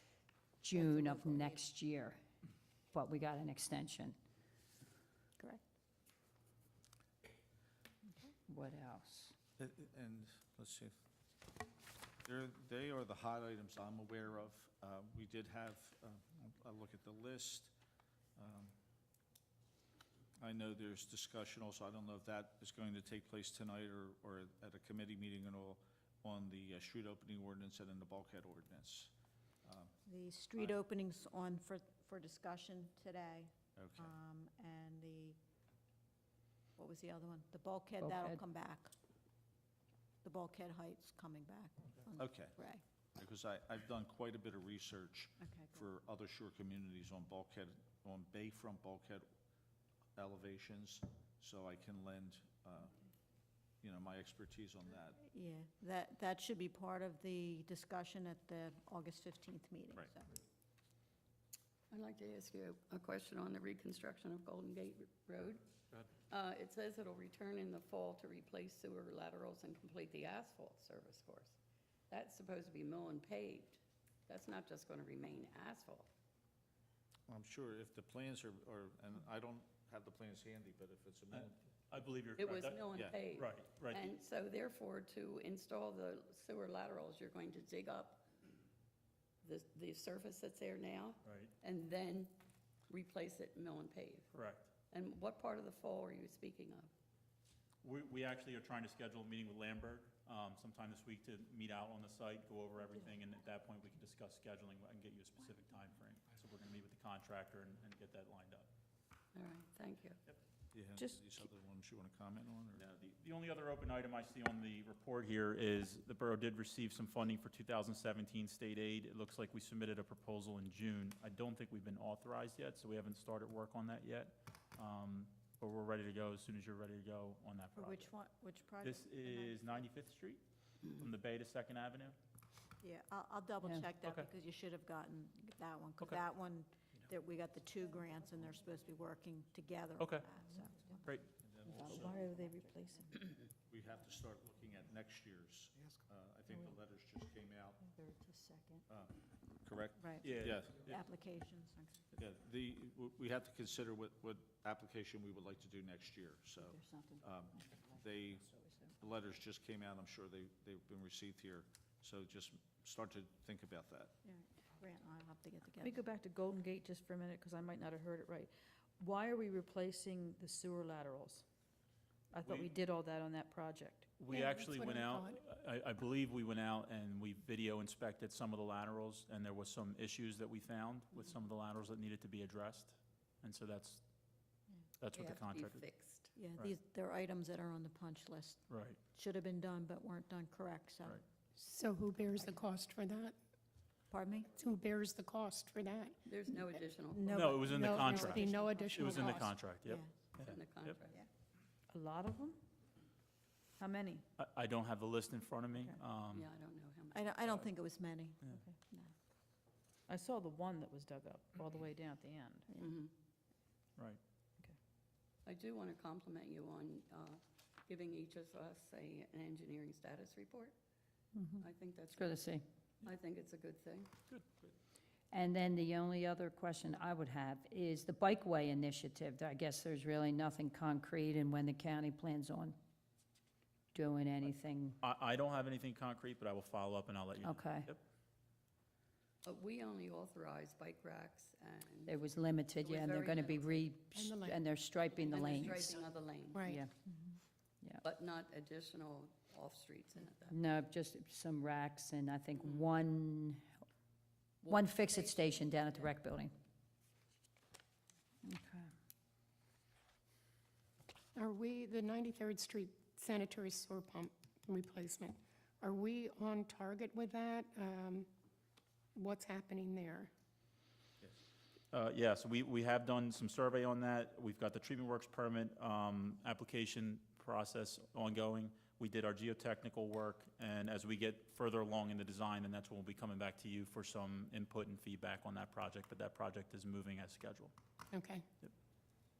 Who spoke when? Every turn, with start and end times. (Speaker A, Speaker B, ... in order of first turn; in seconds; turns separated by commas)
Speaker A: 0.6-2.2, Speaker B: 0.7-1.6, Speaker A: 2.9-4.2, Speaker A: 8.5-9.3, Speaker C: 9.6-10.9, Speaker C: 12.2-17.7, Speaker C: 18.4-18.7, Speaker C: 20.4-29.1, Speaker C: 29.6-29.9, Speaker B: 30.1-35.4, Speaker C: 33.8-34.1, Speaker B: 36.8-38.9, Speaker A: 38.0-38.4, Speaker B: 40.2-42.8, Speaker C: 42.1-42.5, Speaker C: 43.1-49.2, Speaker B: 45.4-45.9, Speaker C: 50.1-53.0, Speaker C: 53.8-55.2, Speaker B: 55.2-60.2, Speaker D: 61.9-65.7, Speaker D: 66.3-71.6, Speaker D: 72.1-76.1, Speaker C: 77.3-81.6, Speaker E: 81.3-84.1, Speaker D: 82.4-88.2, Speaker C: 82.9-83.2, Speaker D: 89.4-92.3, Speaker E: 91.2-91.5, Speaker D: 92.9-94.3, Speaker E: 94.3-94.7, Speaker D: 94.9-96.9, Speaker E: 97.8-108.7, Speaker D: 109.3-110.2, Speaker C: 110.7-112.8, Speaker F: 111.0-111.4, Speaker E: 112.8-128.1, Speaker B: 127.8-129.8, Speaker E: 128.8-132.2, Speaker B: 132.8-141.1, Speaker E: 140.0-140.3, Speaker E: 141.0-141.3, Speaker C: 141.3-142.3, Speaker A: 141.7-142.1, Speaker F: 141.9-143.3, Speaker C: 143.7-147.8, Speaker A: 147.9-148.8, Speaker C: 148.9-150.8, Speaker B: 150.0-152.0, Speaker E: 150.2-151.0, Speaker C: 152.2-158.4, Speaker A: 156.7-158.9, Speaker C: 159.0-164.1, Speaker B: 164.2-166.0, Speaker F: 165.8-171.4, Speaker F: 172.3-174.2, Speaker E: 172.4-172.7, Speaker E: 174.2-184.0, Speaker G: 174.3-175.4, Speaker E: 185.0-185.8, Speaker D: 185.1-186.3, Speaker B: 186.3-191.2, Speaker E: 188.7-189.0, Speaker G: 191.5-193.4, Speaker B: 194.1-194.5, Speaker G: 194.5-196.2, Speaker D: 196.3-197.5, Speaker B: 197.1-199.1, Speaker E: 197.3-198.4, Speaker G: 197.6-199.6, Speaker D: 198.2-199.4, Speaker E: 198.9-200.9, Speaker B: 199.8-200.1, Speaker D: 200.4-201.2, Speaker F: 201.9-202.6, Speaker F: 203.8-204.2, Speaker E: 204.4-206.5, Speaker D: 206.3-207.7, Speaker B: 207.1-209.1, Speaker F: 208.5-208.8, Speaker F: 210.1-212.7, Speaker D: 212.7-213.1, Speaker D: 215.4-220.8, Speaker A: 221.3-222.6, Speaker D: 221.6-222.5, Speaker D: 223.0-224.1, Speaker A: 225.3-232.8, Speaker A: 233.9-235.0, Speaker E: 235.0-238.0, Speaker A: 237.4-237.9, Speaker D: 239.4-242.2, Speaker A: 242.1-246.0, Speaker D: 242.8-243.9, Speaker G: 244.1-244.7, Speaker D: 245.1-246.8, Speaker G: 246.5-246.8, Speaker A: 246.6-246.9, Speaker D: 248.0-250.6, Speaker A: 250.5-253.7, Speaker D: 252.6-252.9, Speaker D: 254.6-256.1, Speaker A: 254.7-256.5, Speaker A: 258.4-258.9, Speaker G: 261.3-268.3, Speaker G: 269.1-270.3, Speaker E: 271.9-287.7, Speaker G: 288.1-288.4